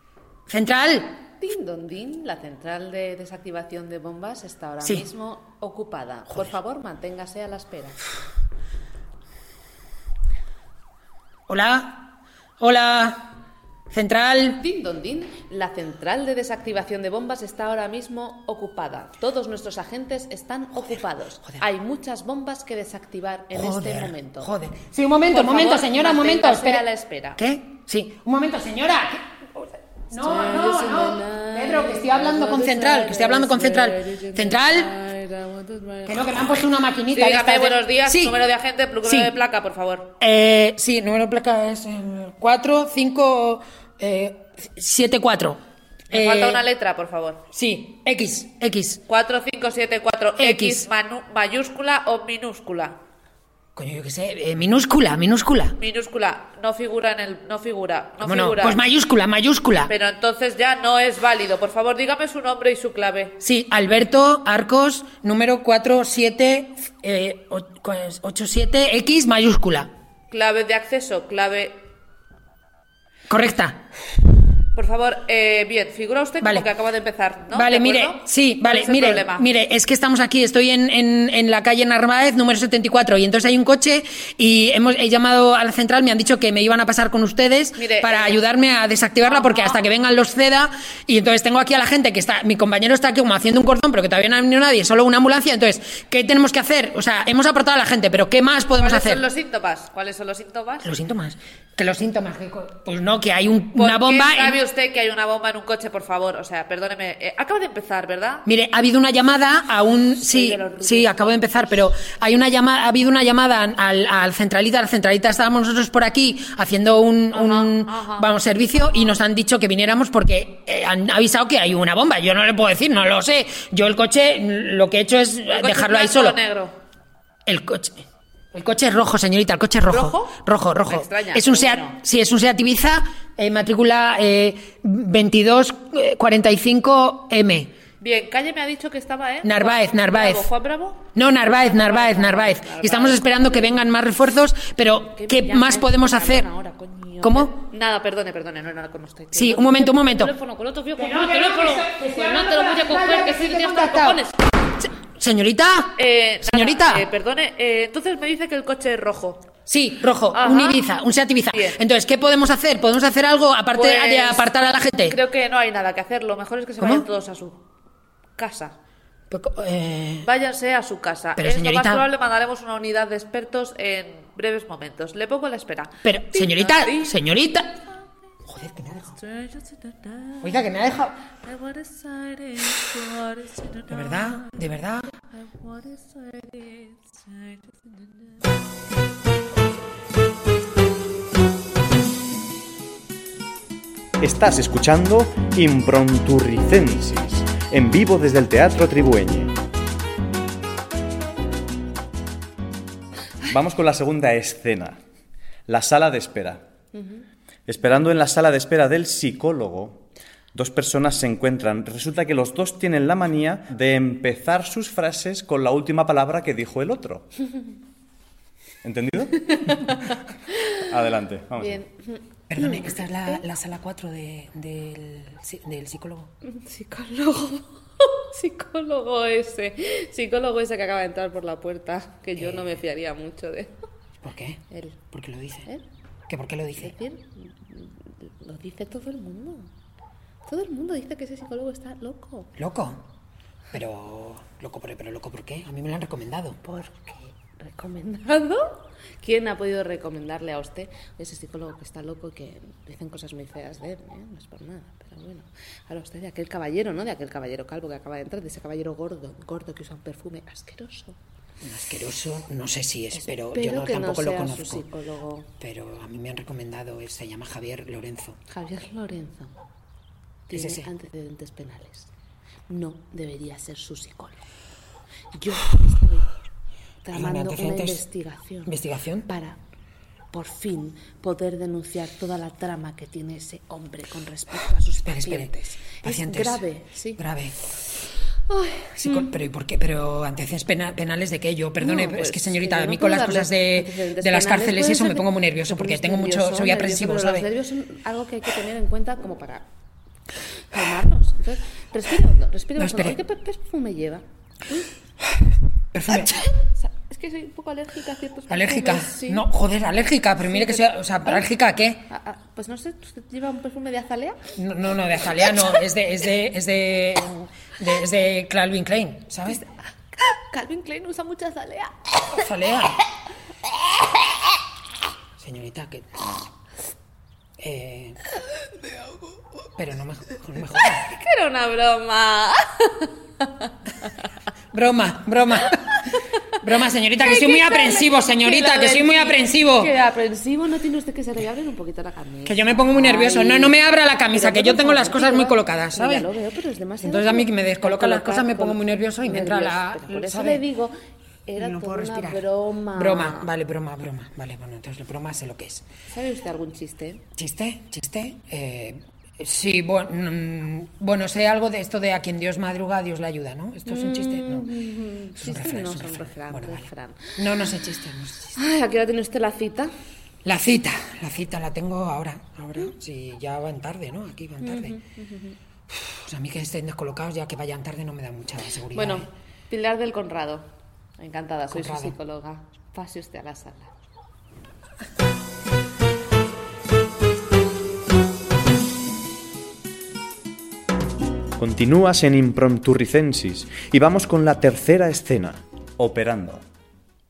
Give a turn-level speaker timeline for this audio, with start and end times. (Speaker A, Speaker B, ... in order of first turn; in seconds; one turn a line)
Speaker A: 0.5-1.1
Speaker B: 1.4-8.0
Speaker A: 11.5-13.3
Speaker A: 13.9-14.6
Speaker B: 14.6-24.5
Speaker A: 23.5-34.9
Speaker B: 25.3-27.4
Speaker B: 30.1-36.6
Speaker A: 36.0-38.4
Speaker B: 37.1-40.1
Speaker A: 39.0-39.3
Speaker A: 40.2-45.6
Speaker A: 46.1-46.6
Speaker B: 46.1-47.4
Speaker A: 47.5-49.0
Speaker B: 49.1-53.0
Speaker A: 50.4-50.9
Speaker A: 53.7-55.8
Speaker B: 55.8-58.8
Speaker A: 58.2-59.9
Speaker B: 59.9-63.4
Speaker A: 63.4-69.9
Speaker B: 70.3-71.8
Speaker A: 73.3-73.8
Speaker B: 74.7-79.5
Speaker A: 76.4-76.7
Speaker A: 77.5-99.2
Speaker B: 87.7-88.4
Speaker B: 89.2-89.8
Speaker B: 98.8-100.9
Speaker A: 100.8-104.6
Speaker B: 103.7-108.5
Speaker A: 108.5-126.4
Speaker B: 110.2-112.0
Speaker B: 117.3-118.3
Speaker B: 125.5-126.8
Speaker A: 127.5-128.0
Speaker A: 128.5-137.7
Speaker B: 129.9-132.0
Speaker B: 138.0-143.7
Speaker A: 139.4-140.5
Speaker A: 141.1-146.5
Speaker B: 145.1-154.4
Speaker A: 147.2-147.6
Speaker A: 149.3-150.3
Speaker A: 150.9-154.2
Speaker A: 154.8-157.1
Speaker B: 155.9-159.5
Speaker A: 159.7-165.2
Speaker B: 160.3-160.8
Speaker B: 161.5-161.8
Speaker B: 163.7-164.5
Speaker B: 165.1-167.6
Speaker A: 166.8-167.1
Speaker B: 168.4-168.8
Speaker A: 169.3-170.3
Speaker B: 170.2-177.2
Speaker A: 171.4-172.1
Speaker A: 176.0-177.7
Speaker A: 178.4-179.2
Speaker B: 179.2-180.7
Speaker A: 180.4-181.2
Speaker B: 181.4-184.6
Speaker A: 183.9-185.1
Speaker B: 185.3-188.3
Speaker C: 194.2-199.6
Speaker C: 203.4-205.0
Speaker C: 205.7-206.6
Speaker C: 207.7-217.3
Speaker C: 218.8-220.0
Speaker B: 219.6-219.9
Speaker C: 220.7-221.8
Speaker B: 221.6-223.4
Speaker A: 222.5-226.3
Speaker B: 226.4-233.7
Speaker A: 232.4-232.7
Speaker A: 234.2-234.6
Speaker B: 234.7-235.0
Speaker A: 235.1-235.7
Speaker A: 236.3-236.9
Speaker B: 236.8-239.7
Speaker B: 240.4-242.5
Speaker A: 242.6-243.0
Speaker A: 243.7-246.6
Speaker B: 246.6-261.2
Speaker A: 261.6-264.9
Speaker B: 263.1-265.5
Speaker A: 265.6-268.4
Speaker B: 268.5-269.6
Speaker B: 270.5-272.1
Speaker A: 270.5-270.9
Speaker B: 272.7-274.3
Speaker B: 275.3-276.3
Speaker B: 277.0-278.7
Speaker A: 277.1-278.1
Speaker A: 278.6-279.3
Speaker B: 279.2-279.6
Speaker B: 280.3-287.2
Speaker A: 285.0-286.6
Speaker A: 287.2-287.6
Speaker B: 288.5-289.3
Speaker A: 288.9-297.5
Speaker B: 291.8-299.7
Speaker B: 300.7-304.9
Speaker A: 302.8-303.2
Speaker A: 305.9-306.5
Speaker B: 306.6-309.4
Speaker A: 308.5-312.0
Speaker B: 310.4-311.5
Speaker B: 312.1-314.4
Speaker A: 314.6-319.6
Speaker B: 320.1-322.4
Speaker A: 322.3-323.0
Speaker A: 325.4-326.2
Speaker A: 327.6-328.2
Speaker A: 329.8-331.1
Speaker B: 330.8-333.7
Speaker A: 334.7-336.0
Speaker A: 336.6-339.9
Speaker B: 337.2-343.8
Speaker A: 342.4-346.3
Speaker B: 344.3-350.9
Speaker A: 347.0-350.6
Speaker B: 351.4-353.5
Speaker A: 351.6-355.8
Speaker B: 356.1-357.2
Speaker A: 357.4-364.7
Speaker B: 363.9-367.4
Speaker A: 365.4-366.8
Speaker A: 367.4-368.6
Speaker B: 368.5-369.9
Speaker A: 370.4-375.0
Speaker B: 374.6-375.6
Speaker A: 375.9-379.3
Speaker B: 378.9-380.7
Speaker B: 381.2-383.9
Speaker A: 381.7-382.1
Speaker C: 391.6-396.6